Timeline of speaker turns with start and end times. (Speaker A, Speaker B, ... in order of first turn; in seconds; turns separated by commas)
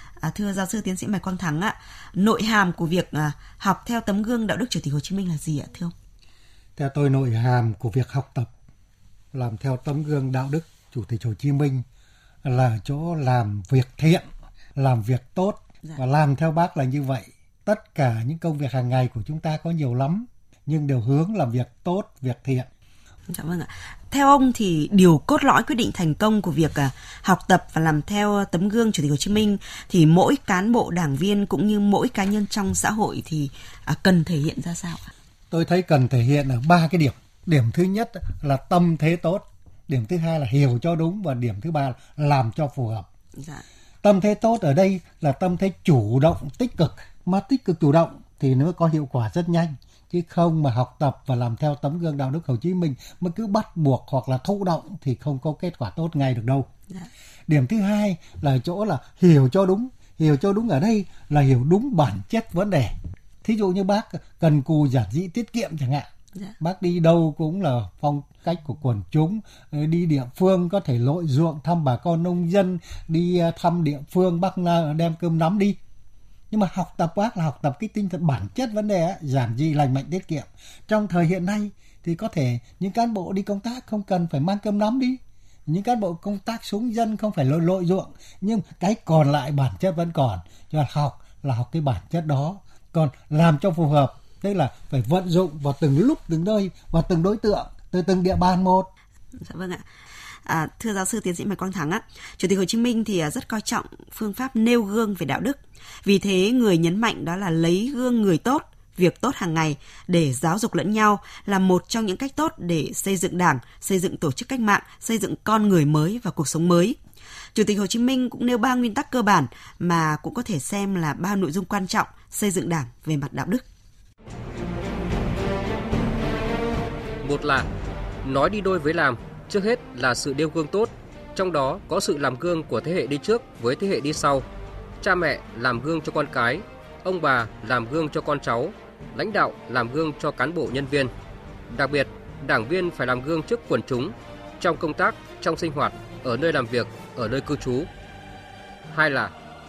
Speaker A: 0.2-5.9, Speaker B: 6.8-8.5, Speaker B: 9.3-11.8, Speaker B: 12.4-22.7, Speaker A: 23.3-35.0, Speaker B: 35.5-43.1, Speaker A: 43.4-43.6, Speaker B: 44.0-56.7, Speaker B: 57.5-66.1, Speaker B: 66.6-75.8, Speaker B: 76.5-98.9, Speaker A: 99.4-99.8, Speaker A: 100.5-117.0, Speaker A: 117.5-123.7, Speaker C: 127.2-127.7, Speaker C: 128.2-134.4, Speaker C: 135.0-141.1, Speaker C: 141.7-147.9, Speaker C: 148.9-149.3